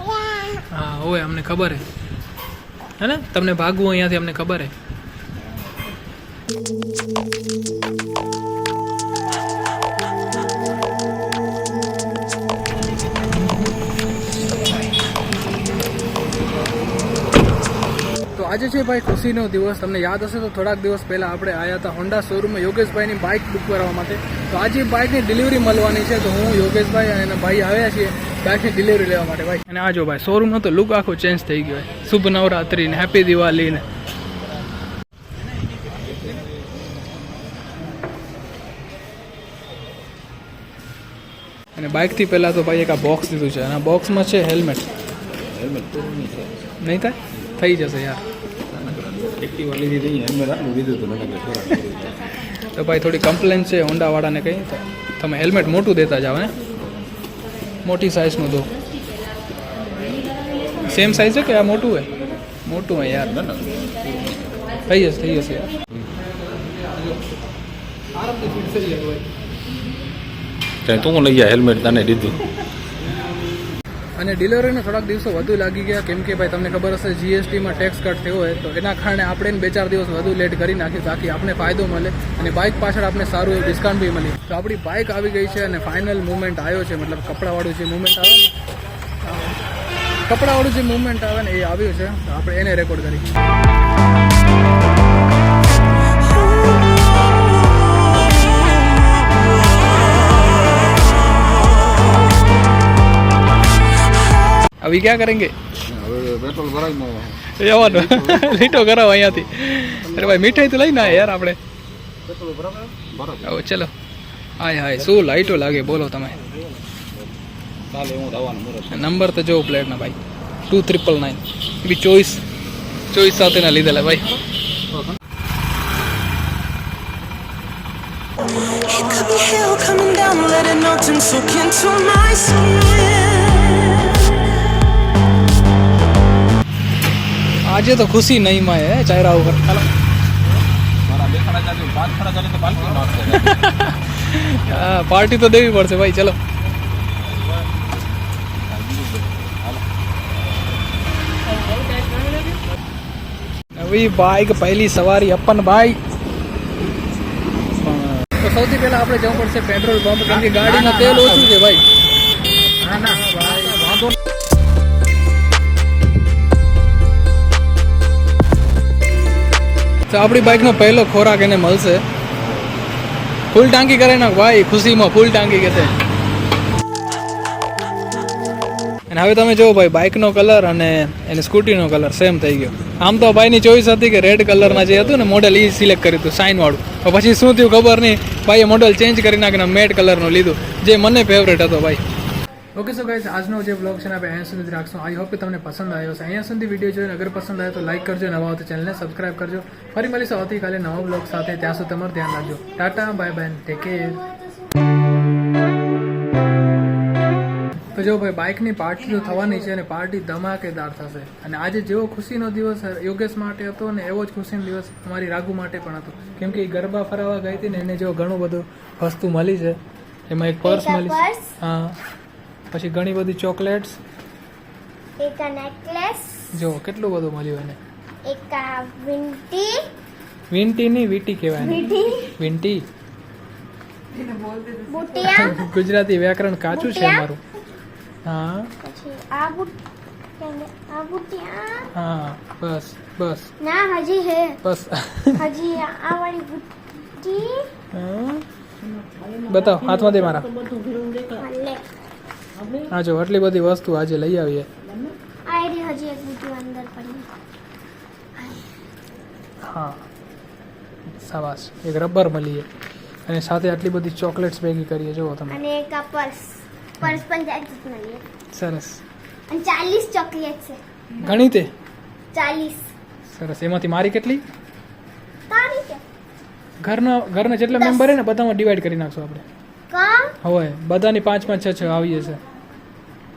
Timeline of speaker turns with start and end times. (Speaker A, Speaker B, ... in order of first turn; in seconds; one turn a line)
Speaker A: 0.1-0.6
Speaker B: 0.7-1.8
Speaker B: 3.0-4.7
Speaker B: 18.4-33.9
Speaker C: 35.8-36.5
Speaker B: 41.8-44.9
Speaker C: 45.5-46.5
Speaker B: 46.8-48.2
Speaker C: 48.7-52.2
Speaker B: 52.7-56.6
Speaker B: 57.8-58.7
Speaker D: 60.2-60.7
Speaker B: 60.8-63.4
Speaker C: 63.2-64.3
Speaker B: 64.9-65.7
Speaker B: 68.2-69.3
Speaker C: 70.8-72.4
Speaker B: 74.2-88.5
Speaker B: 90.3-93.3
Speaker B: 104.8-105.5
Speaker C: 105.9-108.7
Speaker B: 107.5-111.6
Speaker C: 109.3-111.3
Speaker C: 112.3-113.6
Speaker B: 113.5-113.9
Speaker B: 114.6-116.4
Speaker C: 115.0-117.3
Speaker C: 117.9-119.1
Speaker B: 118.9-122.4
Speaker B: 123.1-124.3
Speaker C: 124.9-125.2
Speaker D: 128.8-134.2
Speaker B: 137.7-139.9
Speaker C: 141.1-143.6
Speaker B: 143.3-146.4
Speaker C: 148.6-149.8
Speaker D: 151.6-152.6
Speaker B: 153.8-156.0
Speaker B: 157.9-161.8
Speaker C: 160.5-161.2
Speaker B: 162.8-164.2
Speaker B: 170.1-172.0
Speaker B: 173.5-175.9
Speaker B: 179.1-192.0
Speaker C: 184.7-185.2
Speaker B: 192.8-204.2
Speaker A: 202.1-204.9
Speaker B: 207.9-219.8
Speaker B: 220.3-222.0
Speaker A: 220.6-221.5
Speaker B: 222.7-224.0
Speaker A: 225.2-226.5
Speaker B: 226.5-227.8
Speaker A: 228.3-229.9
Speaker B: 230.5-232.9
Speaker A: 231.6-232.3
Speaker D: 234.2-234.8
Speaker A: 234.8-235.7
Speaker B: 235.2-237.4
Speaker A: 236.7-237.3
Speaker B: 238.2-238.7
Speaker A: 238.8-239.8
Speaker A: 240.4-241.9
Speaker B: 241.9-243.5
Speaker A: 243.6-244.6
Speaker B: 244.6-245.5
Speaker A: 245.4-247.7
Speaker B: 247.9-248.4
Speaker D: 248.8-251.4
Speaker B: 249.5-250.5
Speaker A: 251.4-251.9
Speaker D: 252.6-252.9
Speaker B: 252.9-254.7
Speaker D: 254.8-255.2
Speaker A: 255.5-257.3
Speaker A: 258.4-258.7
Speaker B: 259.6-260.0
Speaker B: 261.2-262.7
Speaker B: 263.3-265.6
Speaker A: 265.5-268.2
Speaker B: 268.5-269.0
Speaker A: 269.5-270.8
Speaker B: 271.2-271.7
Speaker A: 272.3-272.9
Speaker B: 273.3-274.4
Speaker A: 275.5-276.0
Speaker B: 276.8-279.4
Speaker A: 277.7-278.1
Speaker A: 279.9-280.4
Speaker B: 280.4-282.4